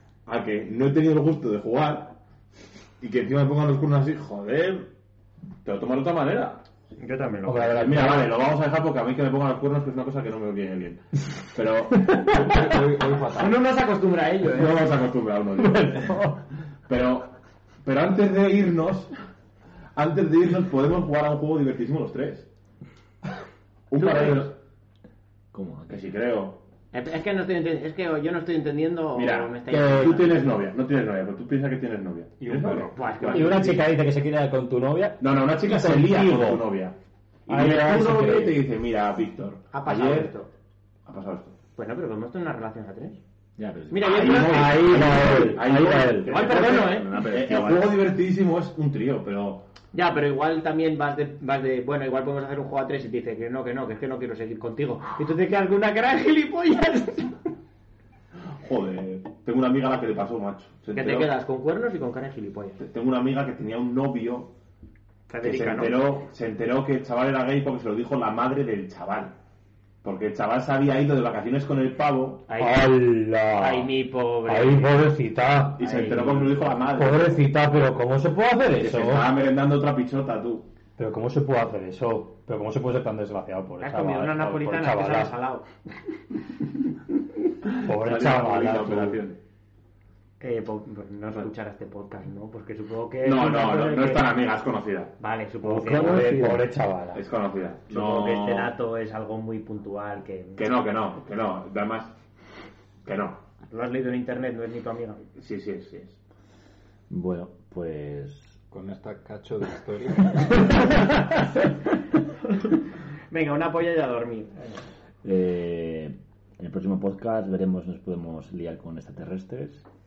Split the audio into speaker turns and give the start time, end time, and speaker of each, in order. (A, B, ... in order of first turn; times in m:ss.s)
0:00.3-0:02.2 A
0:03.0-0:04.9 A
0:05.6-0:06.6 A
0:07.0-0:08.2 B
0:07.4-0:08.3 C
0:07.7-0:12.2 A
0:11.9-0:12.8 C
0:12.2-0:13.6 D
0:13.3-0:14.9 B
0:14.5-0:16.3 A
0:15.6-0:16.4 C
0:16.9-0:17.3 A
0:17.8-0:19.1 A
0:20.0-0:22.5 A
0:23.9-0:24.6 A
0:24.0-0:24.5 B
0:25.5-0:26.0 E
0:25.9-0:26.6 A
0:26.9-0:30.4 B
0:29.2-0:34.0 A
0:29.7-0:30.2 C
0:32.4-0:36.7 C
0:32.9-0:33.7 B
0:35.2-0:37.0 A
0:37.5-0:40.3 A
0:37.5-0:38.6 C
0:39.7-0:40.5 B
0:41.1-0:41.6 A
0:41.8-0:43.2 B
0:43.6-0:44.7 E
0:43.9-0:45.1 B
0:44.0-0:49.7 A
0:44.2-0:46.4 C
0:46.2-0:48.0 E
0:46.3-0:47.2 B
0:49.9-0:57.5 B
0:58.5-1:01.3 A
1:00.9-1:02.8 B
1:02.8-1:04.5 A
1:05.3-1:06.1 B
1:05.4-1:09.4 A
1:10.0-1:12.4 A
1:12.5-1:13.1 B
1:12.6-1:13.9 C
1:13.6-1:15.1 B
1:14.5-1:15.8 C
1:15.8-1:17.4 A
1:15.8-1:16.7 B
1:16.8-1:19.3 C
1:18.8-1:20.7 A
1:21.0-1:25.3 C
1:23.8-1:25.7 B
1:27.7-1:29.4 A
1:27.8-1:29.2 C
1:30.4-1:34.3 B
1:33.2-1:35.1 A
1:35.2-1:36.4 B
1:35.6-1:36.7 E
1:35.7-1:37.2 C
1:37.1-1:38.7 A
1:37.9-1:40.6 B
1:40.6-1:42.2 A
1:43.0-1:43.4 A
1:43.7-1:45.2 B
1:45.4-1:46.2 A
1:47.1-1:48.6 E
1:48.7-1:50.7 D
1:52.4-1:52.8 B
1:53.3-1:54.8 B
1:55.2-1:59.8 E